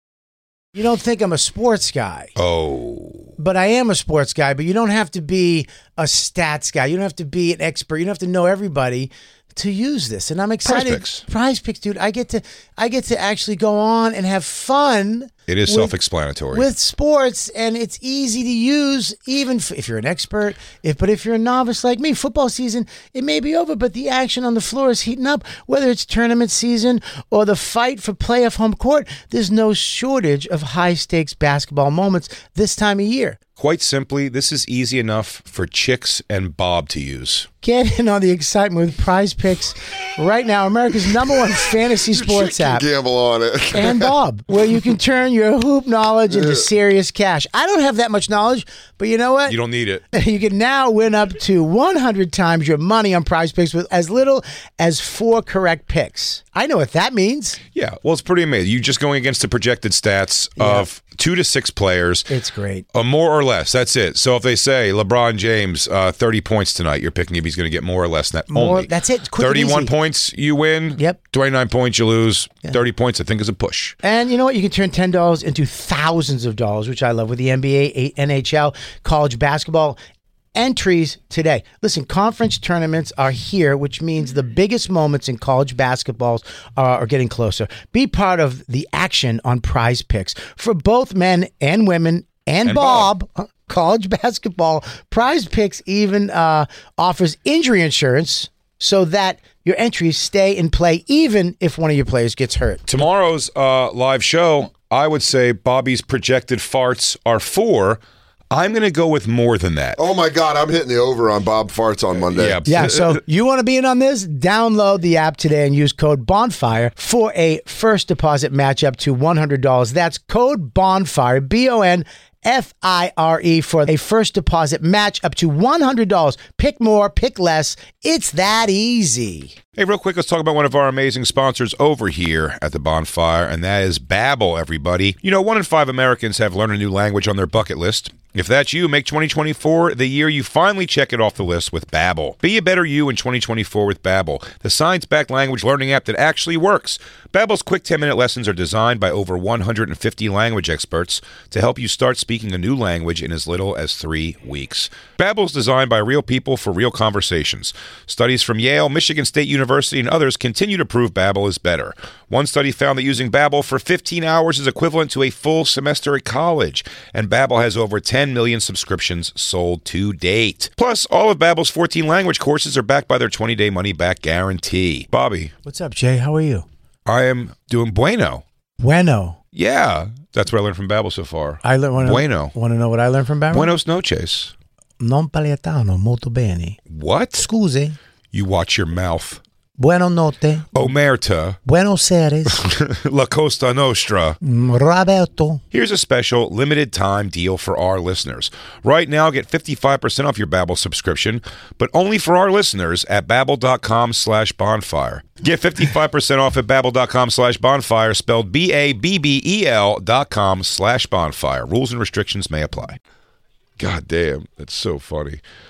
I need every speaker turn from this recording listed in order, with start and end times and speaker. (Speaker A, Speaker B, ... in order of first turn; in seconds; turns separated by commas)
Speaker A: 0.8-2.3, Speaker B: 2.4-3.4, Speaker A: 3.4-15.9, Speaker B: 10.6-11.2, Speaker B: 15.5-16.7, Speaker A: 16.5-33.4, Speaker B: 33.6-37.5, Speaker A: 37.6-42.9, Speaker C: 42.0-44.1, Speaker A: 43.7-49.6, Speaker C: 46.3-46.7, Speaker B: 49.5-50.0, Speaker A: 50.1-57.6, Speaker B: 57.8-62.3, Speaker A: 60.6-60.9, Speaker A: 62.3-62.9, Speaker B: 62.9-74.0, Speaker A: 68.5-69.9, Speaker A: 74.0-80.0, Speaker A: 80.5-102.8, Speaker B: 92.6-93.1, Speaker B: 102.9-110.0, Speaker C: 110.0-112.6, Speaker B: 112.3-113.2, Speaker A: 112.7-129.6, Speaker B: 129.8-175.5, Speaker A: 175.7-176.7, Speaker B: 177.1-178.4, Speaker A: 178.8-179.4, Speaker B: 179.5-182.6, Speaker A: 181.6-183.7, Speaker B: 183.5-184.5, Speaker A: 185.0-186.8, Speaker B: 186.9-187.5, Speaker A: 187.4-188.0, Speaker B: 188.3-189.4, Speaker A: 189.8-190.7, Speaker B: 190.7-191.6, Speaker A: 191.7-192.6, Speaker B: 192.5-194.4, Speaker A: 194.4-195.6, Speaker B: 195.7-213.0, Speaker B: 213.8-215.4